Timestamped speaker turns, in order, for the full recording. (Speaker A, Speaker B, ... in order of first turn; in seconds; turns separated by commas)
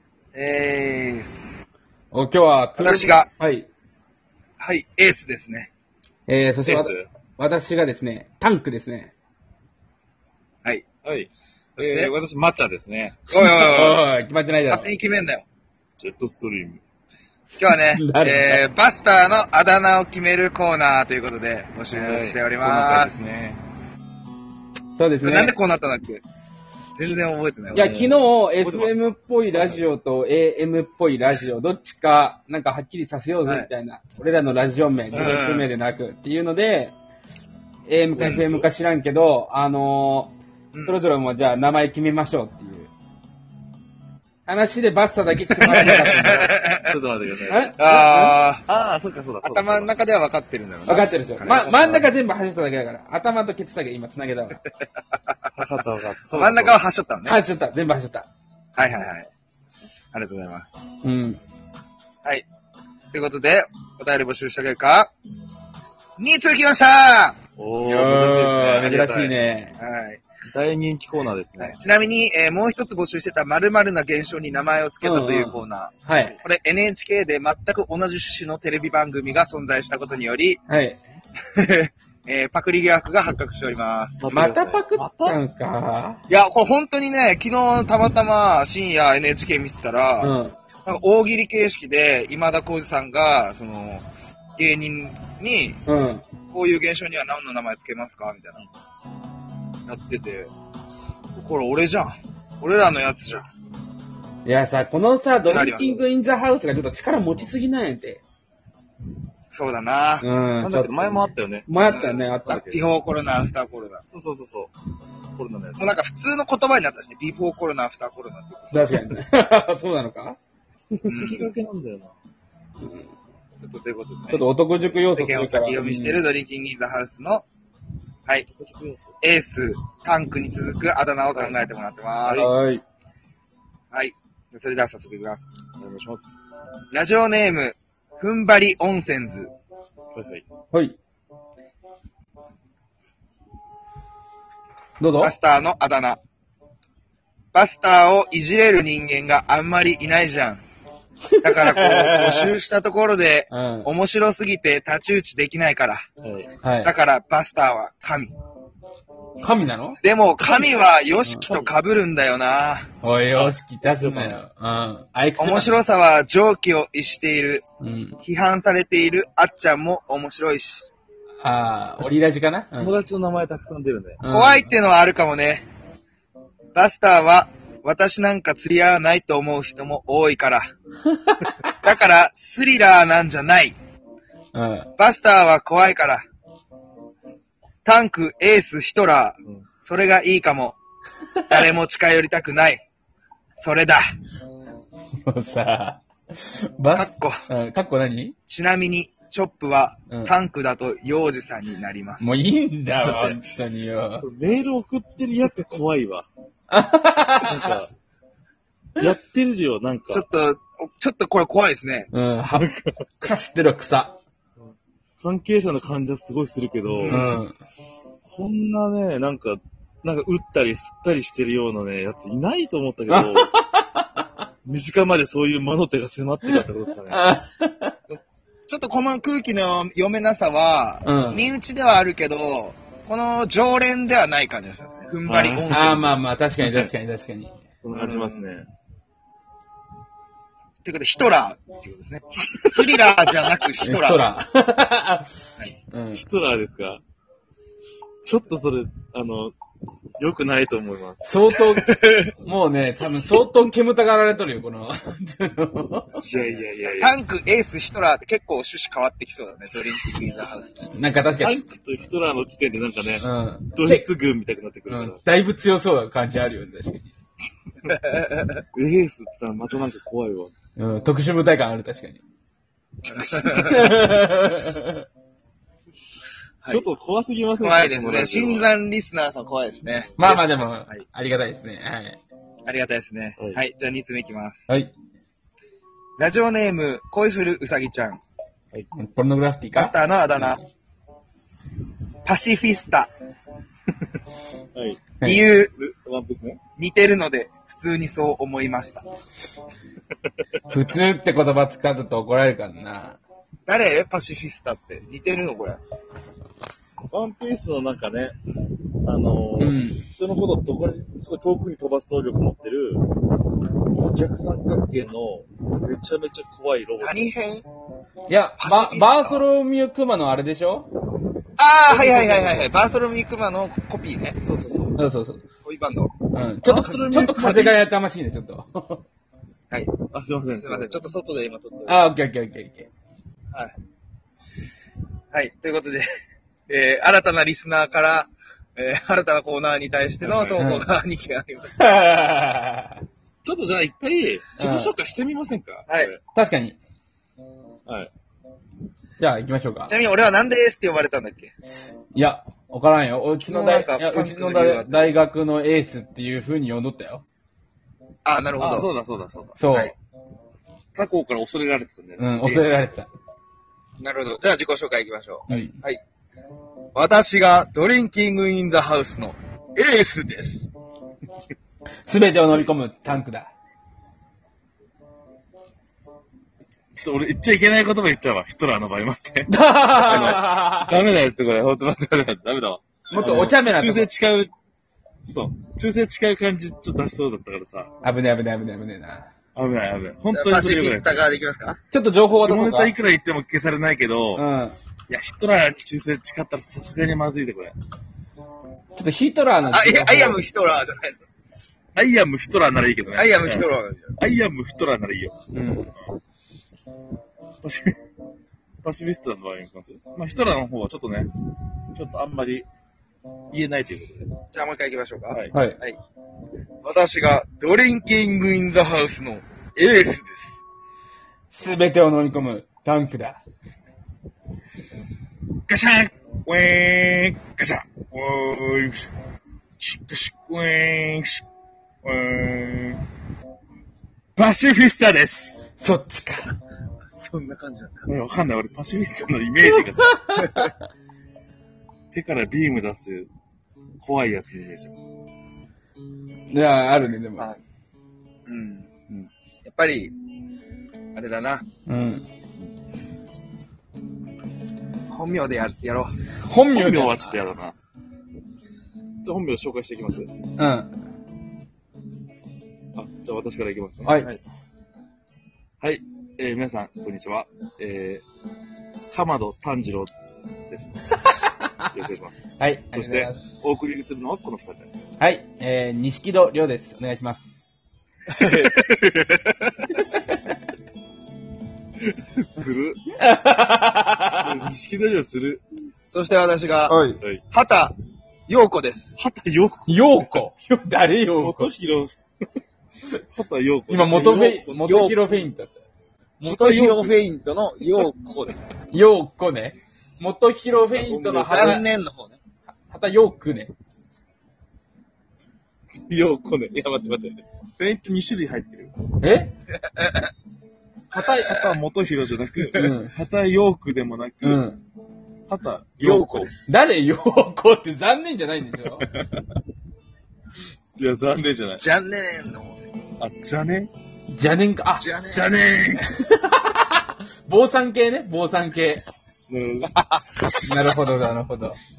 Speaker A: 0.3-1.3, Speaker B: 2.1-3.7, Speaker A: 2.8-3.3, Speaker A: 4.6-5.7, Speaker B: 6.3-9.1, Speaker C: 6.6-7.1, Speaker C: 11.0-13.2, Speaker A: 11.8-12.1, Speaker A: 13.3-14.0, Speaker B: 13.3-14.9, Speaker A: 14.7-15.4, Speaker C: 16.0-16.8, Speaker A: 17.6-23.2, Speaker B: 17.9-18.6, Speaker C: 21.9-23.6, Speaker B: 24.9-25.5, Speaker A: 25.2-26.2, Speaker A: 26.9-27.9, Speaker C: 27.7-29.8, Speaker B: 27.7-36.9, Speaker A: 35.1-35.7, Speaker B: 37.9-40.3, Speaker C: 38.1-38.7, Speaker A: 40.7-41.0, Speaker B: 40.8-42.9, Speaker B: 44.5-46.5, Speaker A: 45.5-46.9, Speaker C: 45.7-49.9, Speaker B: 47.5-48.0, Speaker A: 47.8-48.6, Speaker A: 49.4-51.8, Speaker B: 50.9-54.6, Speaker C: 51.7-52.1, Speaker C: 55.5-56.9, Speaker A: 56.3-57.4, Speaker B: 57.2-58.3, Speaker A: 58.8-59.3, Speaker A: 60.1-60.7, Speaker B: 61.0-61.4, Speaker A: 63.1-65.1, Speaker A: 66.2-67.4, Speaker C: 67.6-69.4, Speaker B: 67.8-69.7, Speaker A: 69.8-70.2, Speaker C: 70.5-71.8, Speaker A: 71.6-80.6, Speaker B: 75.0-76.3, Speaker B: 80.7-81.0, Speaker A: 81.6-84.2, Speaker C: 84.2-85.4, Speaker B: 84.3-86.2, Speaker A: 86.3-90.3, Speaker B: 90.2-90.6, Speaker A: 90.8-94.0, Speaker A: 94.6-95.8, Speaker B: 95.8-96.2, Speaker A: 96.5-98.6, Speaker A: 99.9-100.5, Speaker A: 101.3-103.5, Speaker B: 104.4-108.2, Speaker A: 105.4-106.0, Speaker A: 109.5-110.2, Speaker B: 110.2-112.6, Speaker C: 110.6-111.7, Speaker A: 111.8-114.0, Speaker C: 112.5-112.8, Speaker C: 114.1-114.7, Speaker C: 115.3-116.0, Speaker A: 115.8-119.1, Speaker B: 118.7-120.4, Speaker C: 120.9-122.1, Speaker A: 121.1-121.5, Speaker A: 123.6-127.4, Speaker B: 124.3-126.2, Speaker C: 128.6-129.1, Speaker A: 129.2-132.5, Speaker C: 131.3-131.6, Speaker B: 132.3-132.8, Speaker A: 133.9-135.4, Speaker C: 135.8-136.4, Speaker A: 136.9-139.5, Speaker C: 140.1-140.4, Speaker B: 145.0-145.3, Speaker A: 145.2-146.2, Speaker A: 147.5-150.6, Speaker B: 151.4-152.6, Speaker A: 151.4-156.0, Speaker B: 153.5-153.9, Speaker C: 156.2-156.5, Speaker B: 156.6-156.9, Speaker A: 156.8-158.3, Speaker B: 159.4-160.0, Speaker A: 160.0-162.9, Speaker C: 161.4-161.7, Speaker B: 163.0-165.8, Speaker C: 163.3-164.4, Speaker A: 165.4-167.6, Speaker B: 167.8-168.2, Speaker A: 168.2-170.9, Speaker B: 171.4-172.9, Speaker C: 172.8-174.2, Speaker B: 174.2-174.7, Speaker A: 174.3-175.7, Speaker A: 176.7-180.7, Speaker A: 181.8-183.8, Speaker B: 184.5-184.9, Speaker A: 185.0-186.2, Speaker A: 187.8-190.8, Speaker A: 191.5-192.8, Speaker A: 193.6-194.1, Speaker B: 195.2-198.3, Speaker A: 196.9-197.4, Speaker A: 198.5-202.3, Speaker B: 202.2-204.2, Speaker C: 204.2-206.3, Speaker B: 206.7-207.7, Speaker C: 207.4-207.9, Speaker C: 209.0-210.2, Speaker A: 210.1-212.1, Speaker B: 212.1-212.7, Speaker C: 212.5-212.9, Speaker B: 213.2-214.2, Speaker C: 214.6-217.4, Speaker B: 217.1-217.6, Speaker C: 218.3-223.5, Speaker B: 223.1-224.0, Speaker C: 224.6-227.3, Speaker B: 227.1-227.9, Speaker A: 228.1-236.2, Speaker B: 231.0-231.5, Speaker C: 235.2-235.9, Speaker B: 235.7-237.6, Speaker C: 236.6-236.9, Speaker C: 237.8-238.7, Speaker A: 237.9-238.4, Speaker A: 240.8-244.3, Speaker B: 243.8-245.3, Speaker B: 245.9-246.2, Speaker C: 246.1-247.0, Speaker C: 248.2-249.5, Speaker C: 250.2-251.3, Speaker B: 251.2-256.2, Speaker A: 251.9-252.3, Speaker C: 256.2-257.1, Speaker A: 257.0-260.9, Speaker B: 260.9-261.6, Speaker C: 261.4-265.2, Speaker B: 263.2-264.1, Speaker B: 264.9-267.1, Speaker A: 267.9-268.6, Speaker C: 268.7-270.5, Speaker B: 270.8-272.2, Speaker A: 273.1-274.0, Speaker B: 273.5-275.0, Speaker C: 276.7-278.7, Speaker A: 277.6-281.0, Speaker B: 280.2-282.2, Speaker A: 282.6-284.6, Speaker A: 286.2-288.2, Speaker B: 288.9-289.9, Speaker A: 289.8-290.6, Speaker A: 292.2-293.1, Speaker C: 294.7-295.1, Speaker B: 295.2-295.5, Speaker A: 295.2-295.7, Speaker C: 295.8-296.6, Speaker A: 296.8-299.0, Speaker B: 300.7-303.2, Speaker A: 303.6-305.8, Speaker C: 307.1-308.3, Speaker C: 309.0-313.1, Speaker B: 309.6-310.0, Speaker C: 314.0-317.3, Speaker A: 317.0-317.6, Speaker B: 318.3-320.9, Speaker A: 318.6-319.4, Speaker A: 321.6-324.4, Speaker C: 321.9-322.7, Speaker C: 324.4-325.0, Speaker B: 324.9-325.4, Speaker A: 325.6-326.2, Speaker B: 326.3-329.0, Speaker C: 326.6-327.8, Speaker A: 329.7-330.0, Speaker C: 330.1-331.0, Speaker A: 330.6-332.0, Speaker B: 331.9-332.9, Speaker A: 335.3-336.1, Speaker A: 336.7-341.8, Speaker C: 340.2-340.7, Speaker B: 340.6-340.9, Speaker B: 341.8-343.0, Speaker C: 343.4-346.2, Speaker B: 344.6-344.9, Speaker B: 346.3-346.8, Speaker B: 349.2-349.9, Speaker A: 349.9-351.5, Speaker B: 352.1-357.2, Speaker A: 353.4-355.2, Speaker A: 358.2-358.9, Speaker C: 358.6-359.8, Speaker B: 359.6-359.9, Speaker C: 360.9-362.8, Speaker B: 362.2-363.1, Speaker A: 364.0-366.0, Speaker B: 365.5-365.8, Speaker A: 366.9-370.7, Speaker B: 372.1-373.5, Speaker C: 376.9-384.5, Speaker B: 379.5-381.0, Speaker B: 383.1-384.1, Speaker C: 385.2-387.9, Speaker B: 388.0-389.3, Speaker C: 389.5-391.3, Speaker A: 390.3-391.8, Speaker B: 391.9-392.9, Speaker C: 392.3-394.4, Speaker B: 394.3-394.8, Speaker C: 395.1-397.8, Speaker B: 398.9-400.4, Speaker A: 399.7-401.2, Speaker C: 401.9-405.4, Speaker A: 403.1-404.1, Speaker B: 405.5-405.9, Speaker C: 407.6-407.9, Speaker C: 408.8-411.3, Speaker C: 411.9-412.7, Speaker C: 413.5-414.3, Speaker A: 414.5-416.0, Speaker B: 415.5-415.8, Speaker A: 416.8-420.6, Speaker B: 421.5-423.4, Speaker C: 425.7-429.1, Speaker C: 429.8-431.4, Speaker C: 432.0-433.0, Speaker C: 434.4-435.6, Speaker B: 435.8-436.5, Speaker A: 437.2-438.1, Speaker C: 438.1-440.4, Speaker C: 442.1-443.3, Speaker C: 444.0-445.1, Speaker B: 446.5-447.5, Speaker A: 448.5-450.1, Speaker A: 451.1-451.6, Speaker B: 451.9-452.2, Speaker A: 455.1-456.1, Speaker B: 456.4-457.3, Speaker C: 456.7-457.7, Speaker C: 459.2-460.3, Speaker B: 460.6-460.9, Speaker C: 462.9-464.1, Speaker B: 464.0-464.3, Speaker C: 465.8-468.2, Speaker C: 469.1-470.1, Speaker C: 470.7-471.4, Speaker C: 471.9-474.9, Speaker B: 472.6-473.4, Speaker B: 475.2-477.6, Speaker A: 478.4-479.6, Speaker C: 478.4-478.8, Speaker C: 482.4-483.0, Speaker B: 483.2-484.5, Speaker C: 484.4-485.6, Speaker A: 486.1-487.0, Speaker B: 486.9-487.2, Speaker A: 487.5-487.9, Speaker A: 488.5-489.1, Speaker C: 489.2-490.2, Speaker B: 489.9-491.7, Speaker C: 491.4-492.1, Speaker C: 493.3-494.6, Speaker B: 493.9-495.8, Speaker A: 494.5-495.4, Speaker A: 496.4-498.6, Speaker C: 496.4-497.2, Speaker B: 498.9-501.9, Speaker C: 500.9-501.8, Speaker A: 501.5-502.4, Speaker B: 502.9-503.7, Speaker C: 506.1-508.9, Speaker B: 509.2-509.5, Speaker A: 510.0-510.2, Speaker B: 511.1-511.7, Speaker C: 511.1-514.6, Speaker B: 512.7-513.1, Speaker B: 514.4-514.8, Speaker C: 515.5-516.5, Speaker A: 516.0-516.6, Speaker B: 516.6-519.1, Speaker C: 519.1-519.4, Speaker C: 521.0-521.8, Speaker A: 521.8-522.8, Speaker C: 523.2-523.9, Speaker B: 524.3-525.1, Speaker A: 524.9-525.5, Speaker C: 525.3-526.1, Speaker B: 526.0-529.0, Speaker C: 529.5-530.0, Speaker B: 530.6-531.8